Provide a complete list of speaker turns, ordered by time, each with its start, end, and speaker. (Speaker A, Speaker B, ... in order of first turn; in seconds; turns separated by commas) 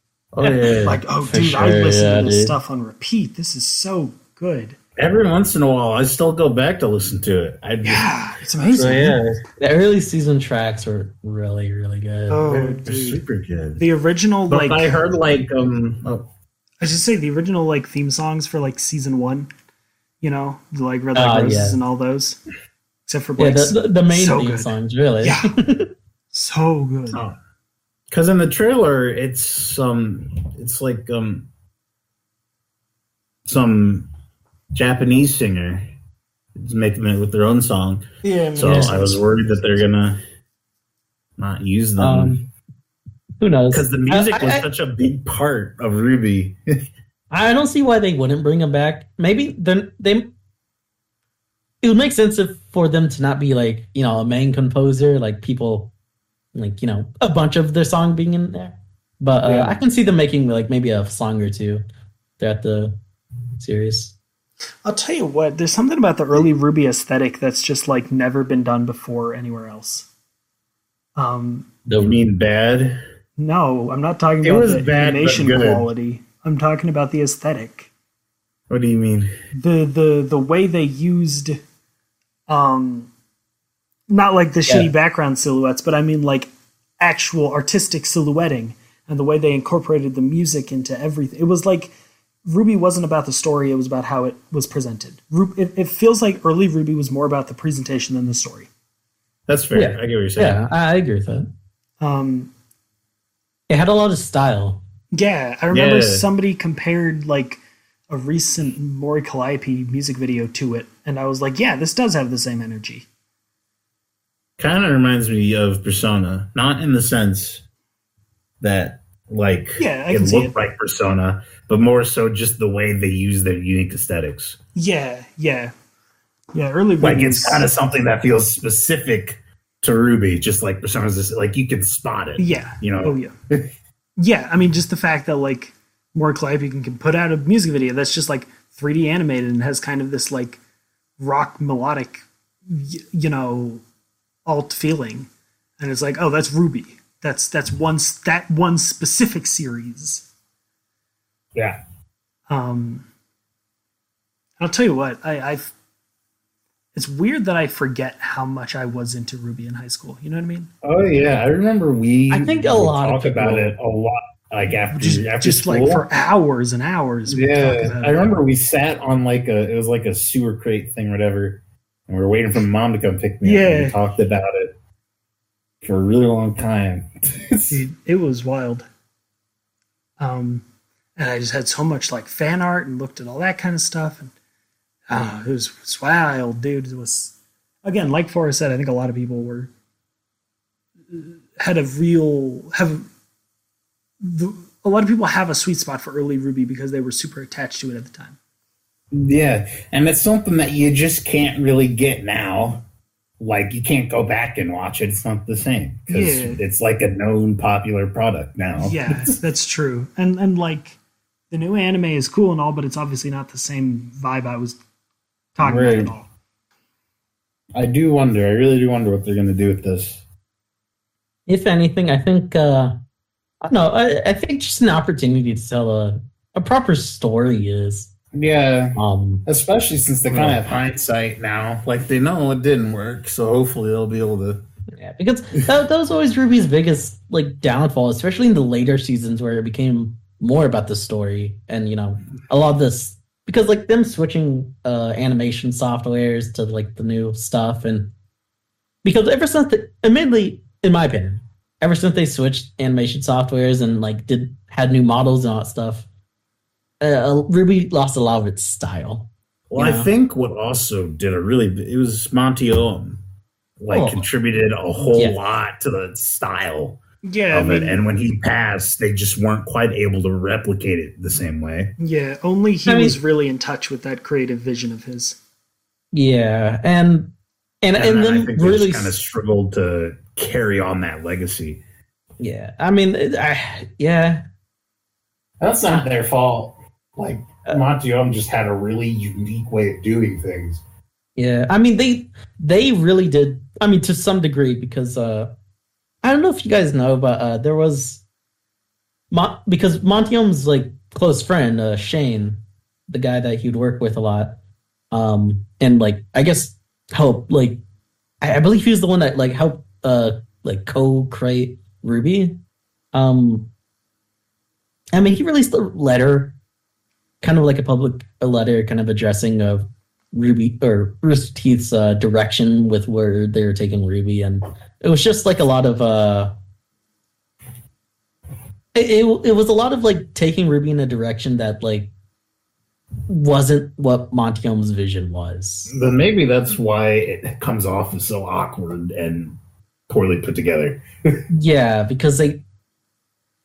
Speaker A: 0.3-1.0, Speaker B: 0.4-4.8, Speaker C: 1.2-2.5, Speaker A: 5.0-8.1, Speaker B: 7.8-9.2, Speaker A: 8.7-9.4, Speaker C: 9.6-12.8, Speaker B: 12.3-13.2, Speaker A: 12.8-13.8, Speaker B: 13.8-15.0, Speaker A: 14.5-16.2, Speaker B: 16.8-19.5, Speaker B: 20.2-22.4, Speaker C: 21.1-21.8, Speaker B: 23.1-25.5, Speaker C: 23.4-25.9, Speaker B: 26.3-27.2, Speaker A: 28.1-31.5, Speaker A: 33.5-34.1, Speaker A: 34.7-35.9, Speaker A: 36.5-38.0, Speaker B: 38.2-39.2, Speaker A: 38.5-40.2, Speaker C: 38.6-38.9, Speaker A: 41.4-42.4, Speaker C: 42.0-42.4, Speaker C: 43.4-44.6, Speaker A: 43.7-46.6, Speaker C: 47.3-50.2, Speaker C: 51.8-55.9, Speaker C: 56.5-61.8, Speaker A: 59.4-59.8, Speaker C: 62.4-62.9, Speaker C: 63.6-64.1, Speaker B: 64.8-70.1, Speaker B: 71.2-71.7, Speaker C: 71.8-72.2, Speaker A: 72.0-73.0, Speaker B: 73.4-77.9, Speaker A: 74.4-75.9, Speaker A: 78.7-79.3, Speaker B: 79.5-81.6, Speaker B: 82.5-83.1, Speaker B: 84.1-91.9, Speaker B: 92.4-98.7, Speaker A: 99.5-100.6, Speaker C: 99.7-101.5, Speaker B: 102.0-102.5, Speaker C: 103.7-104.8, Speaker B: 105.1-113.1, Speaker A: 105.7-106.2, Speaker A: 114.6-117.6, Speaker A: 118.6-124.6, Speaker B: 119.8-120.5, Speaker B: 124.8-125.7, Speaker B: 126.5-127.7, Speaker A: 127.0-133.7, Speaker B: 132.4-133.3, Speaker B: 134.2-140.6, Speaker B: 141.2-143.8, Speaker B: 144.4-145.3, Speaker B: 145.8-150.2, Speaker B: 152.5-153.1, Speaker B: 154.6-155.7, Speaker B: 156.9-160.7, Speaker A: 160.8-166.0, Speaker C: 162.3-163.7, Speaker B: 164.9-168.3, Speaker A: 167.3-174.7, Speaker B: 173.4-174.0, Speaker A: 175.8-177.8, Speaker B: 177.7-178.8, Speaker B: 180.2-180.6, Speaker B: 181.2-184.3, Speaker B: 185.1-189.7, Speaker B: 191.1-193.1, Speaker B: 194.2-198.4, Speaker A: 199.1-202.8, Speaker A: 203.4-209.4, Speaker B: 206.1-206.6, Speaker B: 208.8-211.0, Speaker B: 211.5-214.8, Speaker B: 215.6-216.3, Speaker A: 215.6-216.1, Speaker A: 217.7-220.2, Speaker C: 221.5-222.9, Speaker C: 223.6-228.1, Speaker A: 228.3-234.6, Speaker C: 228.9-229.4, Speaker C: 230.3-230.6, Speaker C: 235.0-248.1, Speaker C: 249.0-256.1, Speaker C: 257.0-259.2, Speaker A: 259.7-263.2, Speaker C: 259.8-260.1, Speaker A: 263.8-267.0, Speaker C: 265.1-265.4, Speaker B: 267.2-268.0, Speaker A: 267.5-271.9, Speaker B: 272.0-275.4, Speaker C: 272.9-273.2, Speaker C: 276.1-277.3, Speaker C: 277.8-279.2, Speaker A: 277.9-281.8, Speaker C: 282.4-284.4, Speaker A: 285.6-290.8, Speaker C: 291.4-295.5, Speaker C: 296.2-298.2, Speaker C: 299.3-302.6, Speaker C: 303.1-304.5, Speaker C: 305.1-307.8, Speaker C: 308.4-312.5, Speaker C: 313.1-313.6, Speaker C: 315.1-316.5, Speaker C: 317.4-326.5, Speaker C: 328.9-332.1, Speaker C: 333.3-335.9, Speaker A: 335.9-339.6, Speaker A: 340.1-341.0, Speaker C: 341.5-342.6